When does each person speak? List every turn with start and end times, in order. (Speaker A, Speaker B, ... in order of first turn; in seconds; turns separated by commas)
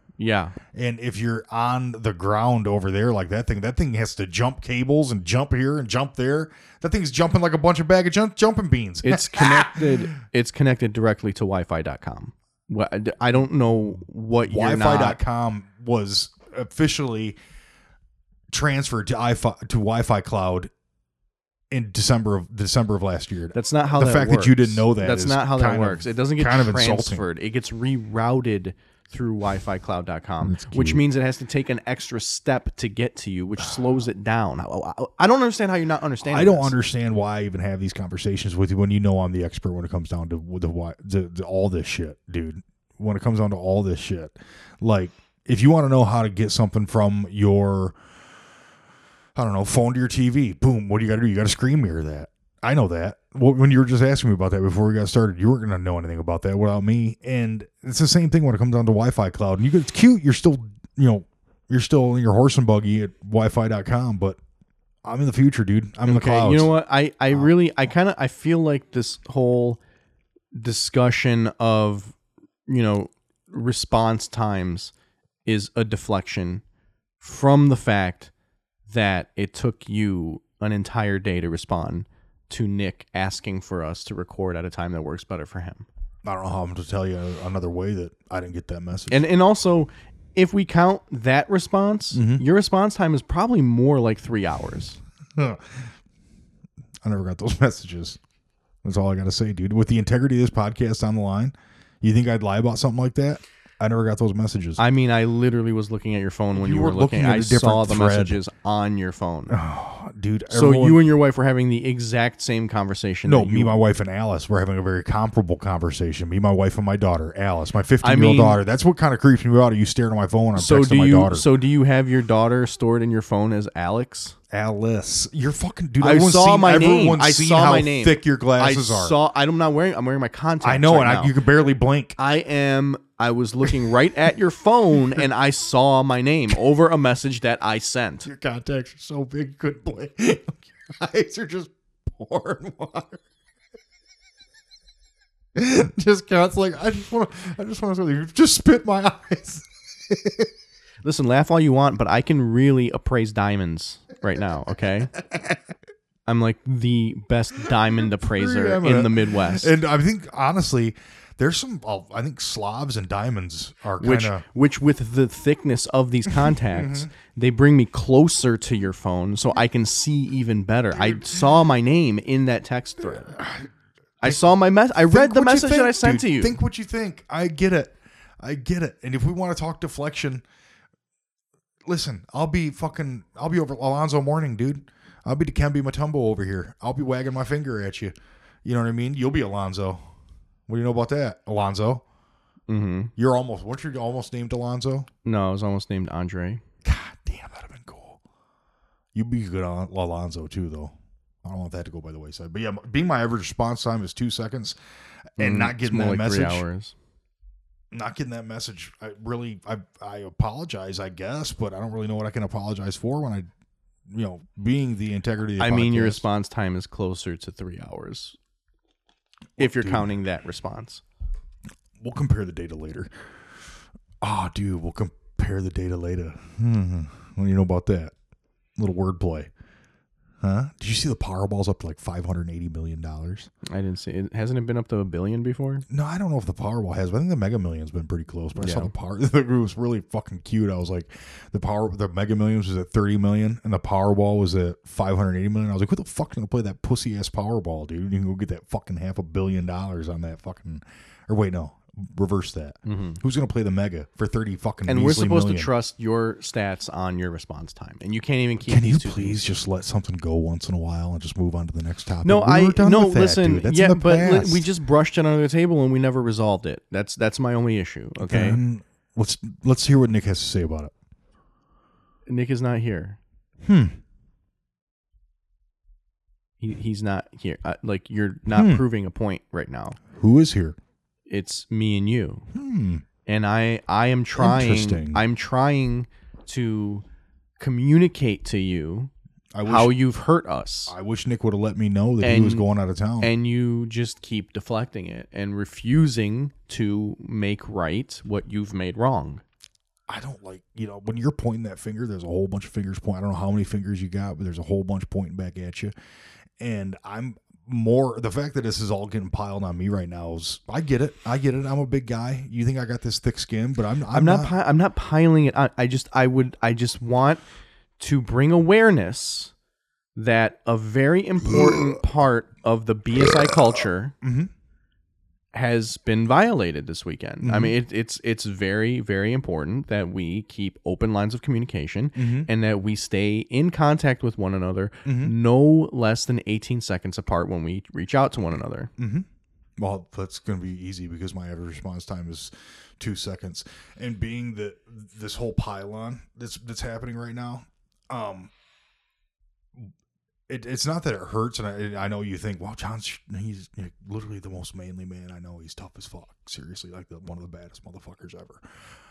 Speaker A: 0.2-0.6, Speaker B: 0.7-10.0, Speaker A: 9.0-15.2, Speaker B: 14.5-17.4, Speaker B: 18.5-20.7, Speaker B: 21.7-27.3, Speaker A: 23.5-36.7, Speaker B: 30.4-31.0, Speaker B: 36.2-48.0, Speaker B: 49.4-64.4, Speaker B: 65.0-66.7, Speaker A: 66.0-69.8, Speaker A: 70.5-72.1, Speaker A: 72.7-74.9, Speaker A: 75.5-76.6, Speaker A: 77.2-78.3, Speaker A: 78.9-85.9, Speaker B: 86.2-89.2, Speaker A: 89.1-95.0, Speaker B: 92.1-92.4, Speaker B: 95.4-95.9, Speaker B: 97.0-98.2, Speaker B: 98.8-104.8, Speaker A: 104.8-109.6, Speaker B: 106.5-108.4, Speaker B: 109.5-111.0, Speaker A: 110.5-113.8, Speaker B: 113.3-121.5, Speaker A: 118.0-118.6, Speaker A: 120.6-124.4, Speaker B: 124.5-129.2, Speaker A: 126.0-131.4, Speaker B: 130.6-132.2, Speaker A: 132.2-138.3, Speaker B: 138.2-143.2, Speaker B: 145.6-150.5, Speaker A: 151.0-155.1, Speaker B: 155.2-155.6, Speaker A: 156.3-159.7, Speaker B: 158.0-164.4, Speaker A: 164.0-173.3, Speaker B: 166.3-167.1, Speaker B: 173.0-173.7, Speaker B: 174.2-174.5, Speaker A: 174.2-176.5, Speaker B: 175.1-180.4, Speaker B: 181.9-188.1, Speaker B: 188.7-190.0, Speaker B: 190.7-192.0, Speaker A: 192.7-193.1, Speaker B: 193.2-195.1, Speaker A: 195.2-196.6, Speaker B: 196.8-198.2, Speaker B: 199.1-204.8, Speaker B: 205.4-206.6, Speaker A: 205.4-206.9, Speaker B: 207.9-213.5, Speaker B: 214.1-216.2, Speaker A: 215.6-218.4, Speaker B: 219.6-220.1, Speaker A: 219.6-221.0, Speaker B: 222.0-223.1, Speaker B: 224.2-228.1, Speaker B: 228.8-229.5, Speaker B: 230.4-233.5, Speaker A: 233.7-235.8, Speaker B: 235.9-255.7, Speaker A: 238.6-238.9, Speaker A: 252.9-253.2, Speaker A: 254.9-259.4, Speaker B: 258.7-264.7, Speaker A: 262.2-268.6, Speaker B: 268.2-270.9, Speaker A: 272.3-273.2, Speaker B: 273.6-274.0, Speaker A: 276.6-280.0, Speaker B: 278.5-278.9, Speaker B: 280.1-280.8, Speaker A: 281.3-282.5, Speaker B: 282.5-283.1, Speaker A: 283.3-287.0, Speaker B: 284.4-285.2, Speaker A: 287.6-289.1, Speaker B: 289.5-289.9, Speaker A: 289.6-290.9, Speaker B: 290.9-293.3, Speaker A: 292.2-292.7, Speaker A: 293.2-299.4, Speaker B: 300.1-305.9, Speaker B: 306.6-314.6, Speaker A: 314.1-317.4, Speaker A: 318.0-319.5, Speaker A: 320.2-324.1, Speaker B: 324.2-324.5, Speaker A: 325.5-338.9, Speaker B: 327.4-327.8, Speaker B: 332.2-332.5, Speaker B: 335.1-335.3, Speaker B: 339.0-339.3, Speaker B: 339.8-348.5, Speaker B: 350.5-358.6